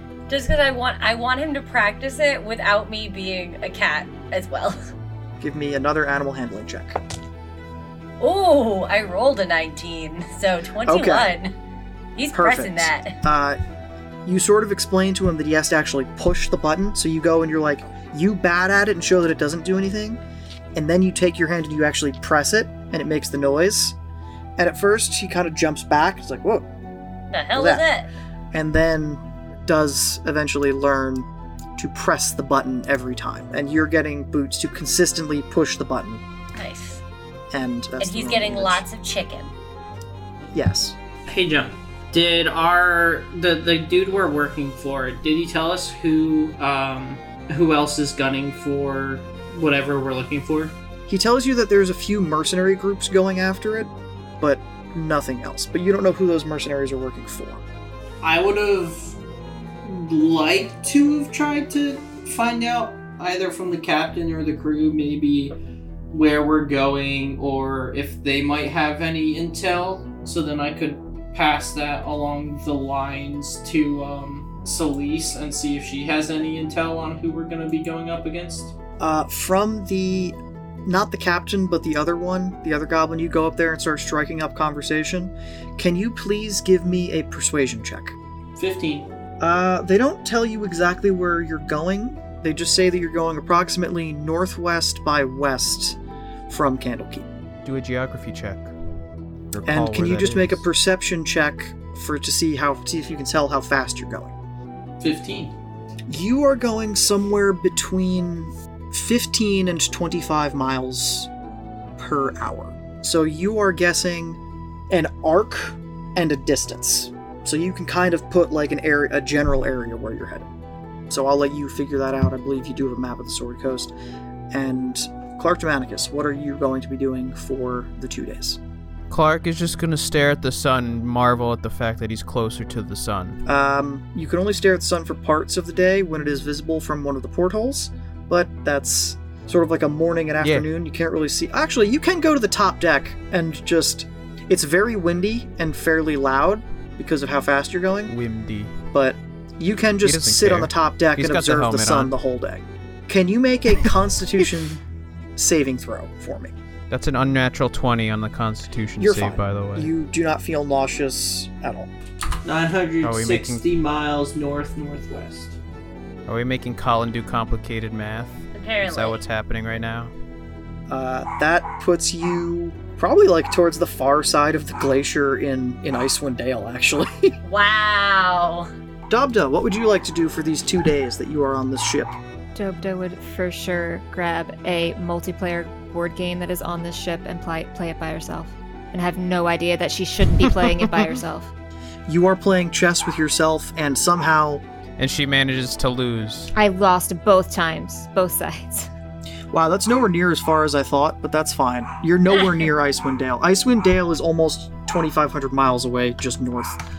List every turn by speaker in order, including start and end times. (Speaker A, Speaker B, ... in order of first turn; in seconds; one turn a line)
Speaker A: 0.3-4.8
Speaker B: 5.4-7.0
Speaker A: 8.2-11.6
Speaker B: 10.8-11.3
Speaker A: 12.2-13.2
Speaker B: 12.3-13.6
Speaker B: 14.2-20.2
Speaker B: 20.8-24.0
Speaker B: 24.6-26.7
Speaker A: 27.3-28.1
Speaker B: 27.6-27.8
Speaker B: 28.5-36.2
Speaker A: 36.6-37.0
Speaker B: 37.5-38.9
Speaker A: 38.0-39.5
Speaker B: 40.5-41.0
Speaker C: 41.3-50.8
Speaker B: 51.1-57.6
Speaker C: 58.2-59.2
Speaker C: 59.8-65.6
Speaker C: 66.1-78.8
Speaker B: 79.0-88.2
Speaker C: 88.6-89.1
Speaker B: 89.4-96.0
Speaker B: 96.5-97.3
Speaker D: 97.7-98.7
Speaker D: 99.5-100.7
Speaker B: 99.7-104.3
Speaker C: 105.0-105.5
Speaker B: 106.1-111.3
Speaker B: 112.0-114.4
Speaker B: 114.9-120.5
Speaker B: 121.1-123.9
Speaker B: 124.5-128.6
Speaker D: 129.1-133.4
Speaker B: 133.5-148.1
Speaker D: 140.4-140.7
Speaker D: 148.1-148.8
Speaker B: 148.9-154.8
Speaker D: 150.0-152.2
Speaker B: 155.4-156.5
Speaker D: 156.9-159.9
Speaker B: 159.0-161.9
Speaker C: 162.4-165.6
Speaker D: 163.0-163.6
Speaker D: 166.3-170.1
Speaker A: 168.5-169.2
Speaker B: 170.9-177.3
Speaker A: 177.4-178.7
Speaker B: 179.1-182.1
Speaker E: 182.6-191.5
Speaker B: 192.1-194.6
Speaker D: 195.0-196.5
Speaker E: 196.6-198.9
Speaker B: 199.5-206.8